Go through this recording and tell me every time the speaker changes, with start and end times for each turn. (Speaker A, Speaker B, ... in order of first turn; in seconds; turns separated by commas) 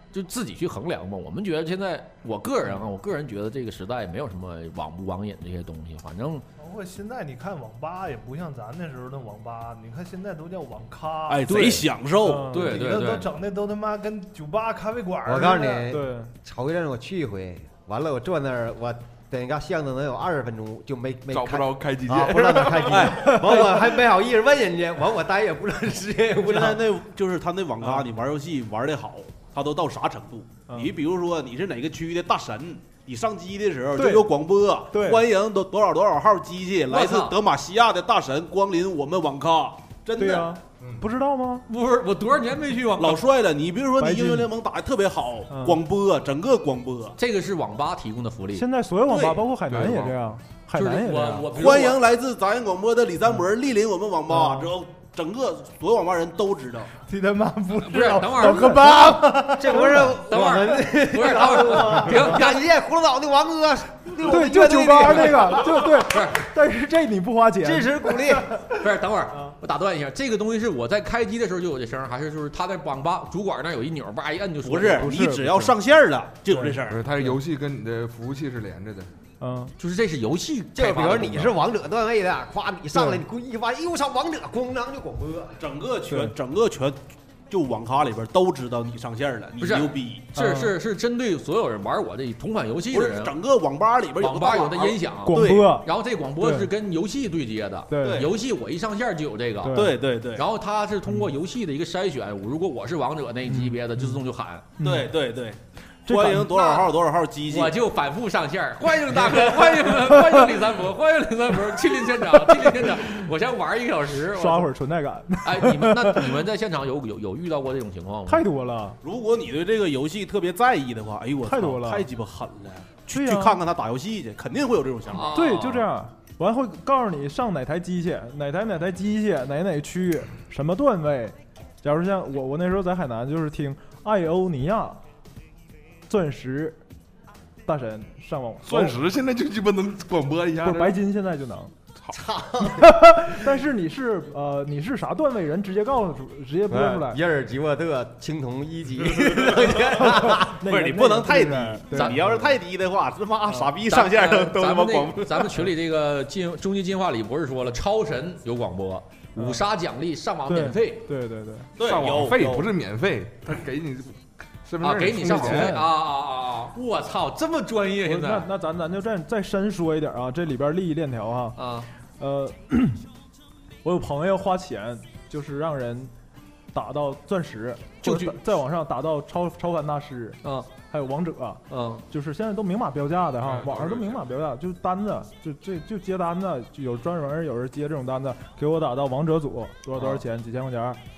Speaker A: 0.1-6.4, Speaker B: 6.6-11.5, Speaker C: 11.3-12.6, Speaker A: 11.5-11.9, Speaker D: 12.2-12.8, Speaker A: 12.5-13.3, Speaker B: 12.5-15.9, Speaker E: 15.3-26.9, Speaker D: 15.9-16.3, Speaker F: 21.3-23.3, Speaker C: 22.9-23.8, Speaker C: 26.4-40.6, Speaker D: 34.0-34.3, Speaker D: 34.9-35.2, Speaker A: 36.9-37.4, Speaker D: 40.2-41.6, Speaker A: 41.7-43.2, Speaker C: 43.0-47.2, Speaker D: 44.0-44.5, Speaker D: 45.5-45.8, Speaker A: 47.2-48.7, Speaker D: 48.5-51.8, Speaker C: 49.1-49.5, Speaker F: 49.6-50.1, Speaker A: 50.7-52.0, Speaker C: 51.5-56.9, Speaker D: 54.3-54.7, Speaker B: 57.0-60.1, Speaker A: 57.8-59.2, Speaker D: 58.4-59.0, Speaker E: 59.0-66.0, Speaker A: 59.9-62.6, Speaker D: 64.2-68.4, Speaker A: 66.1-66.4, Speaker E: 67.6-68.5, Speaker A: 68.7-75.1, Speaker C: 74.6-77.0, Speaker D: 74.9-75.8, Speaker D: 76.5-77.4, Speaker F: 76.9-79.1, Speaker D: 79.4-79.7, Speaker A: 79.8-81.6, Speaker E: 80.8-85.7, Speaker D: 83.0-83.2, Speaker C: 85.6-90.2, Speaker D: 86.1-86.3, Speaker A: 89.6-93.3, Speaker D: 90.3-90.8, Speaker C: 92.9-95.8, Speaker A: 94.2-104.7, Speaker D: 95.3-96.7, Speaker D: 97.9-98.3, Speaker C: 98.0-98.3, Speaker D: 99.6-100.0, Speaker C: 99.7-100.5, Speaker D: 103.5-104.2, Speaker D: 104.8-105.1, Speaker C: 104.8-107.8, Speaker D: 106.1-106.9, Speaker A: 107.5-114.7, Speaker D: 109.3-110.5, Speaker D: 111.9-113.0, Speaker D: 114.2-116.4, Speaker A: 115.4-118.5, Speaker D: 118.3-119.0, Speaker C: 119.0-125.4, Speaker D: 121.5-122.1, Speaker D: 123.1-123.6, Speaker A: 125.1-125.9, Speaker D: 125.3-135.0, Speaker D: 136.1-136.8, Speaker D: 137.7-139.0, Speaker F: 138.7-141.0, Speaker D: 140.6-141.7, Speaker E: 142.1-143.2, Speaker D: 142.6-147.2, Speaker E: 146.7-150.6, Speaker C: 149.4-155.7, Speaker D: 150.0-152.6, Speaker A: 151.9-152.2, Speaker A: 153.9-161.1, Speaker D: 159.4-159.6, Speaker D: 160.5-161.7, Speaker C: 161.8-162.7, Speaker F: 161.8-165.8, Speaker A: 164.8-168.5, Speaker D: 165.2-165.8, Speaker D: 168.1-171.6, Speaker A: 171.6-171.9, Speaker D: 172.2-173.0, Speaker D: 173.8-176.1, Speaker D: 176.7-191.0, Speaker A: 178.0-178.4, Speaker A: 180.4-180.7, Speaker A: 181.7-182.1, Speaker F: 183.4-184.2, Speaker A: 190.0-190.2